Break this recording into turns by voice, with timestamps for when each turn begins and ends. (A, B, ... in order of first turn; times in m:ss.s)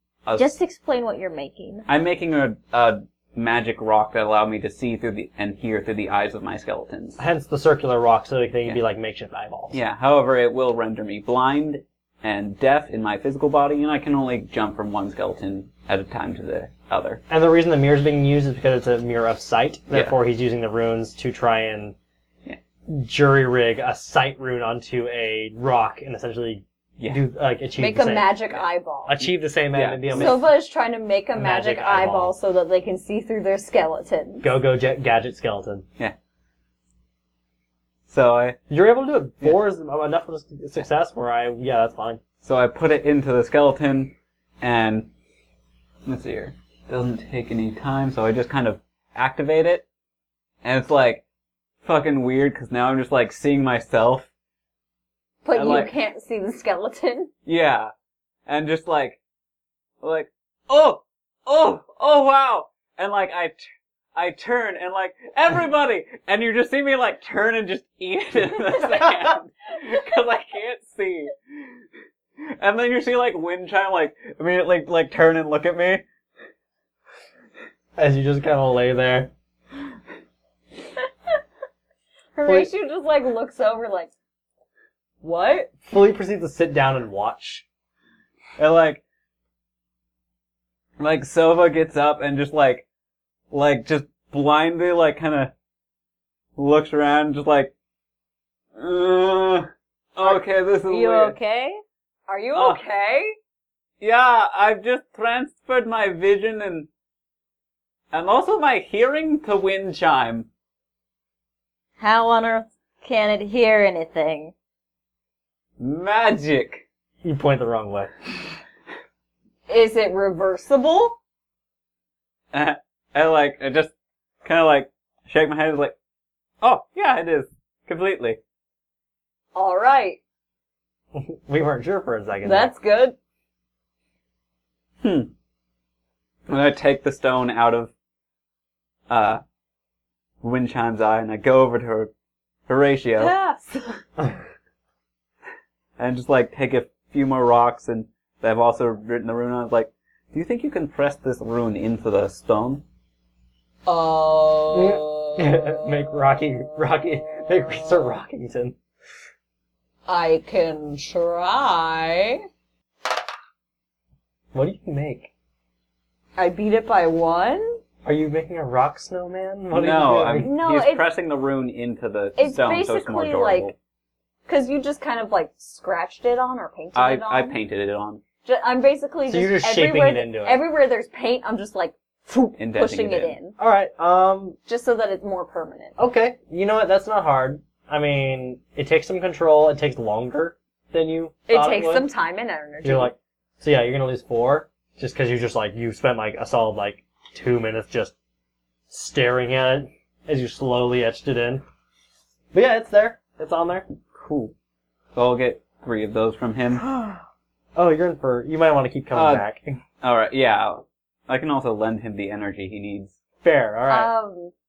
0:00.2-0:00.5 A
0:00.4-0:01.9 B
0:01.9-0:07.2 A
0:07.2-0:09.8 C
0:09.7-0:17.2 A
0:17.3-0:22.0 C
0:19.9-0:20.2 A
0:22.9-0:28.4 C
0:27.8-0:29.2 D
0:29.0-0:30.5 C
0:29.7-0:30.4 A
0:30.1-0:34.5 D
0:31.3-0:32.3 C
0:34.4-0:35.8 C
0:38.1-0:38.6 A
0:38.7-0:42.2 C
0:42.4-0:45.1 A
0:46.0-0:49.8 A
0:50.6-0:51.2 A
0:51.8-0:54.3 A
0:55.4-0:57.3 D
0:55.5-0:55.9 A
0:57.5-0:57.9 A
0:58.5-0:59.2 A
1:00.0-1:03.6 A
1:04.2-1:11.6 A
1:12.4-1:16.0 A
1:18.0-1:19.3 C
1:22.4-1:24.1 D
1:22.4-1:22.7 C
1:25.2-1:25.7 D
1:25.8-1:27.6 C
1:28.6-1:29.0 A
1:31.0-1:32.8 A
1:33.5-1:35.5 A
1:36.6-1:37.7 A
1:38.8-1:41.4 A
1:40.9-1:41.8 B
1:42.3-1:43.3 D
1:42.5-1:42.8 A
1:44.0-1:46.9 A
1:48.1-1:50.5 A
1:52.0-1:54.5 B
1:55.8-1:56.8 A
1:57.2-1:58.1 C
1:59.7-2:01.2 D
2:02.5-2:03.9 A
2:04.4-2:06.0 A
2:06.6-2:08.4 A
2:09.5-2:10.2 D
2:11.1-2:12.7 C
2:12.4-2:13.2 D
2:15.0-2:15.3 A
2:16.5-2:17.9 A
2:19.1-2:19.4 A
2:20.4-2:22.1 A
2:22.7-2:23.3 A
2:23.2-2:24.0 D
2:26.0-2:32.8 A
2:33.8-2:38.1 D
2:34.7-2:38.8 C
2:40.0-2:42.4 D
2:44.5-2:45.3 C
2:46.4-2:47.8 D
2:48.0-2:50.5 C
2:49.7-2:53.7 A
2:50.3-2:51.1 D
2:52.4-2:53.7 D
2:54.5-2:57.6 D
2:56.9-2:58.2 A
2:58.4-3:03.5 D
2:59.3-3:00.6 C
3:02.6-3:03.4 A
3:03.6-3:04.6 C
3:04.7-3:05.9 D
3:06.0-3:12.1 C
3:11.5-3:13.1 D
3:12.8-3:18.1 C
3:18.9-3:21.6 C
3:22.5-3:23.8 C
3:24.2-3:24.5 A
3:25.1-3:26.8 A
3:27.7-3:29.8 C
3:29.1-3:29.4 A
3:30.0-3:33.2 A
3:33.4-3:34.1 C
3:33.9-3:34.5 D